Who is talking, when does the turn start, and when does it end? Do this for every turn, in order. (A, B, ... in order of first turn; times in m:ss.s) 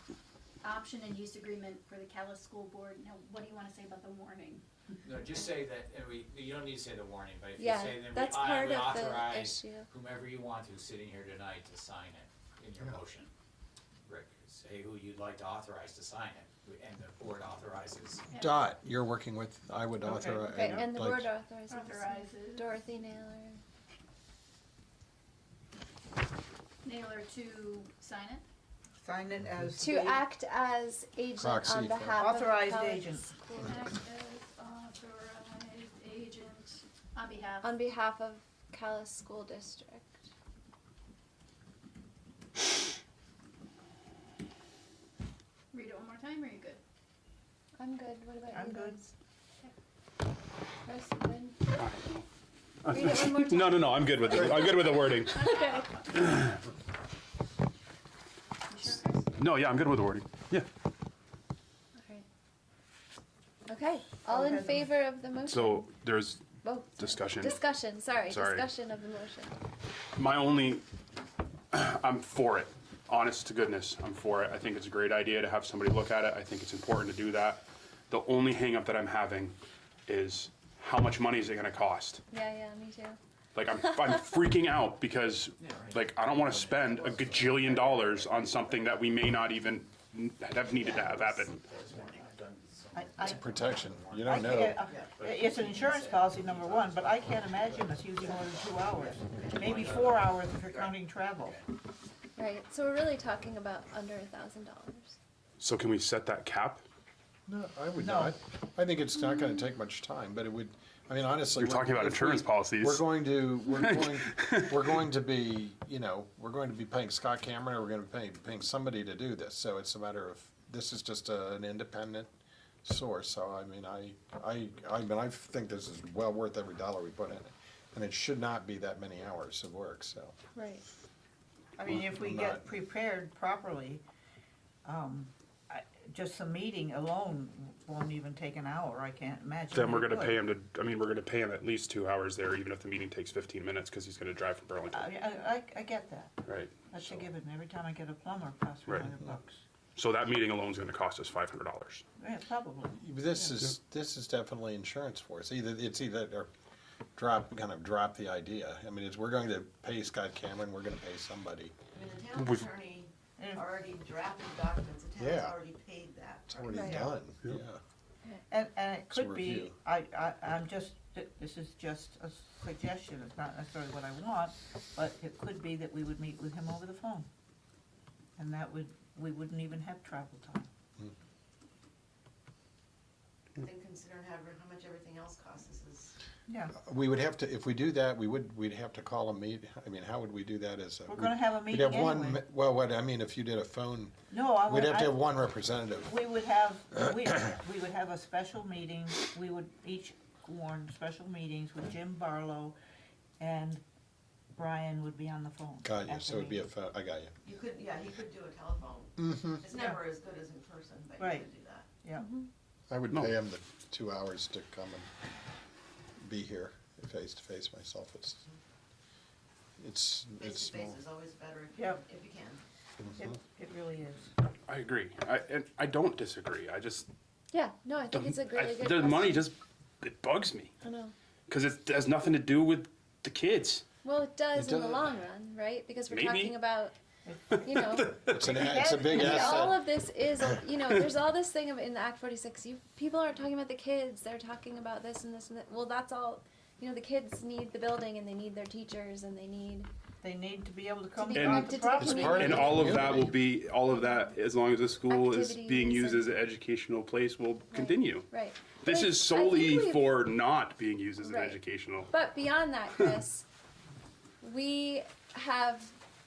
0:00.6-0:04.6 A
0:05.0-0:13.3 B
0:07.6-0:09.9 C
0:14.0-0:18.2 B
0:18.3-0:18.6 A
0:18.3-0:21.3 D
0:20.0-0:20.9 E
0:20.5-0:23.6 C
0:21.7-0:22.7 A
0:26.8-0:28.4 A
0:29.0-0:30.3 E
0:29.8-0:33.8 C
0:31.4-0:32.2 D
0:32.2-0:33.4 E
0:33.6-0:37.8 A
0:37.6-0:40.2 C
0:45.7-0:46.8 A
0:47.8-0:49.1 C
0:48.5-0:49.0 E
0:50.8-0:51.6 C
0:51.8-0:52.2 F
0:52.8-0:55.5 F
0:52.8-0:55.8 C
0:55.3-0:56.0 A
0:56.1-0:56.6 F
0:58.7-0:59.3 A
0:59.4-1:00.7 F
1:03.7-1:05.9 C
1:04.2-1:04.9 E
1:05.5-1:07.6 F
1:06.6-1:09.6 C
1:08.3-1:08.7 F
1:10.2-1:10.8 F
1:11.7-1:19.6 F
1:20.1-1:22.2 F
1:22.3-1:23.2 C
1:23.5-1:31.6 F
1:25.6-1:29.1 B
1:30.7-1:41.7 B
1:31.8-1:32.2 G
1:32.9-1:33.4 E
1:33.2-1:34.8 D
1:34.2-1:41.6 E
1:34.8-1:35.2 G
1:38.9-1:40.0 G
1:42.4-1:45.2 C
1:45.6-1:46.8 F
1:47.5-2:02.3 D
1:48.0-1:48.3 E
1:49.2-1:49.6 C
1:51.6-1:54.7 F
2:02.8-2:10.4 D
2:10.5-2:10.8 C
2:11.8-2:14.0 E
2:11.8-2:12.7 D
2:14.8-2:20.4 E
2:19.7-2:25.1 F
2:24.9-2:26.3 E
2:26.4-2:27.2 F
2:26.9-2:29.6 E
2:30.0-2:32.0 F
2:32.2-2:33.4 E
2:33.0-2:36.5 D
2:37.2-2:41.7 D
2:41.9-2:46.8 G
2:42.4-2:42.6 F
2:43.4-2:43.7 E
2:45.2-2:45.6 D
2:46.5-2:47.8 D
2:46.7-2:46.9 C
2:46.7-2:47.1 E
2:48.5-2:57.3 E
2:49.1-2:49.8 D
2:58.4-3:00.7 E
3:03.6-3:06.1 G
3:06.5-3:06.8 E
3:06.8-3:16.1 D
3:11.1-3:12.4 E
3:14.3-3:15.2 E
3:16.0-3:22.7 E
3:23.4-3:23.8 E
3:24.5-3:26.6 E
3:25.8-3:27.3 D
3:27.4-3:31.9 G
3:29.2-3:29.6 D
3:31.2-3:31.5 E
3:32.0-3:32.3 E
3:32.2-3:32.5 C
3:32.9-3:35.1 D
3:36.2-3:38.4 D
3:39.8-3:41.0 D
3:40.4-3:42.6 G
3:41.8-3:42.0 E
3:43.0-3:43.3 D
3:43.2-3:44.3 E
3:44.7-3:47.1 F
3:47.5-3:49.4 C
3:48.1-3:50.7 F
3:50.8-3:51.1 C
3:51.5-3:53.8 F
3:54.0-3:57.0 C
3:54.5-3:55.1 D
3:56.1-3:56.6 F
3:57.2-3:57.7 E
3:57.6-3:58.5 F
3:57.6-3:58.1 C
3:58.3-3:59.8 D
3:58.3-3:59.8 E
3:58.9-4:09.9 C
4:10.2-4:13.1 E
4:11.2-4:12.9 C
4:11.3-4:22.2 F
4:12.0-4:13.4 D
4:15.1-4:16.3 C
4:17.7-4:20.1 C
4:21.2-4:21.6 C
4:22.1-4:23.4 C
4:24.4-4:26.0 C